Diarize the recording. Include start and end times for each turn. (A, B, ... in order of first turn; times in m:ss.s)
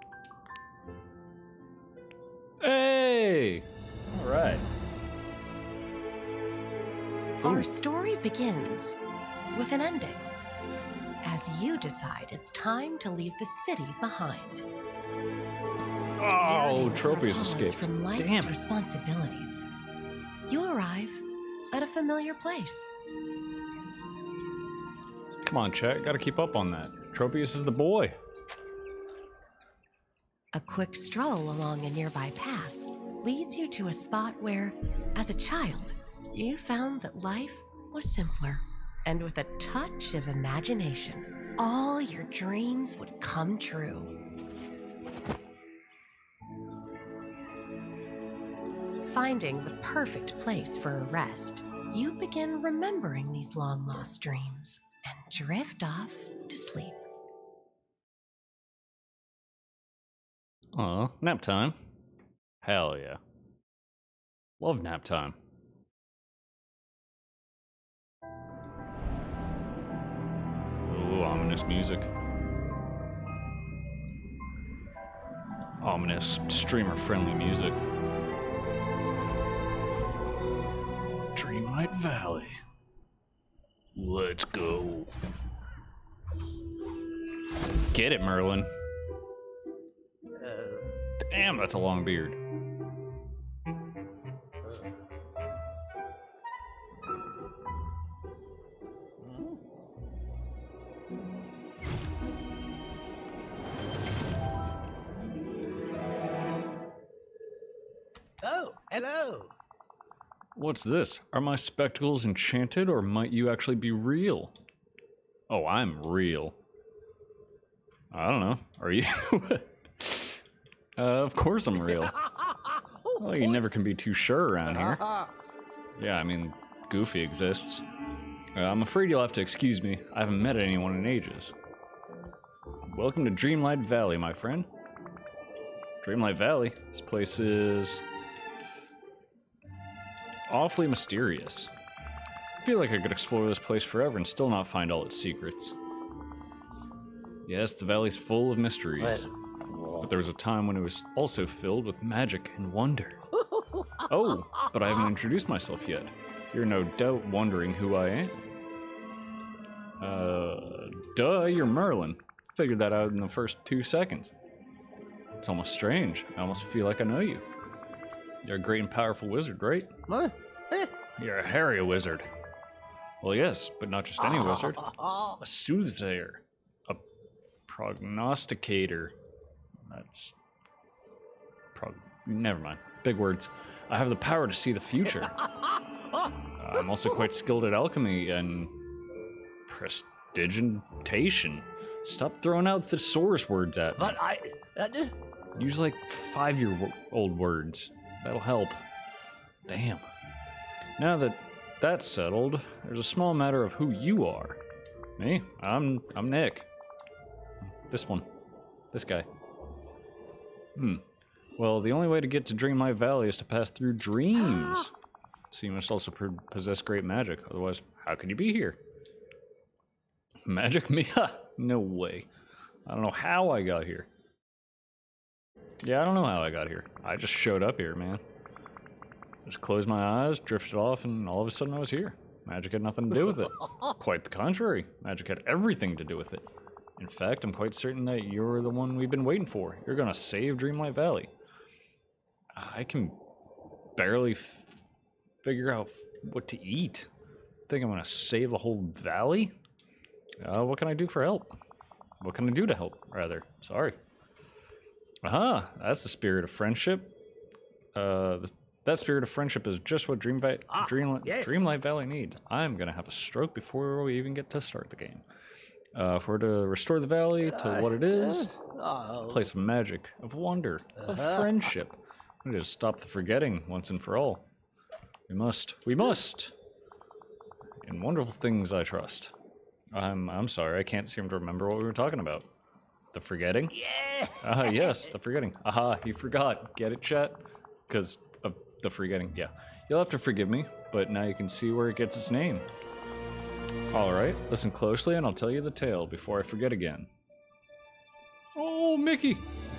0:02.6-0:04.6 A
0:07.4-0:09.0 B
0:07.4-0:07.7 A
0:09.5-0:10.3 B
0:11.2-0:14.6 B
0:16.2-0:18.6 A
0:16.4-0:19.6 B
0:20.5-0:22.9 B
0:25.4-0:28.2 A
0:30.5-0:44.1 B
0:49.0-0:57.0 B
1:00.7-1:01.8 A
1:02.6-1:03.2 A
1:04.6-1:05.4 A
1:10.8-1:12.1 A
1:15.8-1:17.8 A
1:21.3-1:22.6 A
1:24.0-1:25.1 A
1:27.9-1:28.7 A
1:30.3-1:30.9 C
1:31.2-1:32.4 A
1:39.2-1:39.6 C
1:48.4-1:49.5 C
1:50.5-1:54.6 A
1:55.5-1:56.6 A
1:58.1-2:00.4 A
2:01.0-2:02.3 A
2:02.2-2:03.6 C
2:03.2-2:05.0 A
2:04.6-2:05.3 C
2:06.0-2:07.8 A
2:08.5-2:11.5 A
2:12.9-2:14.7 A
2:16.0-2:18.0 A
2:20.5-2:21.7 A
2:22.6-2:25.8 A
2:27.4-2:29.3 A
2:29.0-2:30.1 C
2:30.0-2:33.3 A
2:33.3-2:34.0 C
2:34.1-2:38.4 A
2:40.0-2:44.3 A
2:45.4-2:47.4 A
2:48.4-2:49.9 A
2:50.1-2:50.9 C
2:51.2-2:52.3 A
2:53.2-2:57.0 A
2:54.2-2:55.4 C
2:57.7-2:59.2 A
2:59.9-3:00.4 A
3:01.7-3:05.4 A
3:05.2-3:06.3 C
3:06.6-3:08.8 A
3:09.6-3:14.2 A
3:14.0-3:15.2 C
3:15.5-3:18.8 A
3:19.7-3:20.0 A
3:21.0-3:24.6 A
3:25.2-3:26.7 A
3:27.9-3:28.3 A
3:28.9-3:29.3 A
3:30.8-3:31.0 A
3:31.6-3:34.9 A
3:35.5-3:38.8 A
3:40.4-3:42.3 A
3:42.8-3:44.1 A
3:45.8-3:48.2 A
3:49.4-4:01.3 A
4:02.5-4:03.2 A
4:04.0-4:04.8 A
4:05.4-4:07.1 A
4:07.7-4:09.6 A
4:10.4-4:11.6 A
4:12.2-4:14.0 A
4:15.2-4:17.1 A
4:17.9-4:25.2 A
4:20.7-4:21.6 C
4:25.9-4:28.5 A
4:27.4-4:29.5 C
4:29.2-4:34.4 A
4:31.0-4:31.5 C
4:35.3-4:36.5 A
4:37.8-4:39.3 A
4:39.9-4:42.5 A
4:43.1-4:43.8 A
4:43.7-4:45.0 C
4:44.4-4:52.7 A
4:53.9-4:57.1 A
4:58.6-4:59.5 A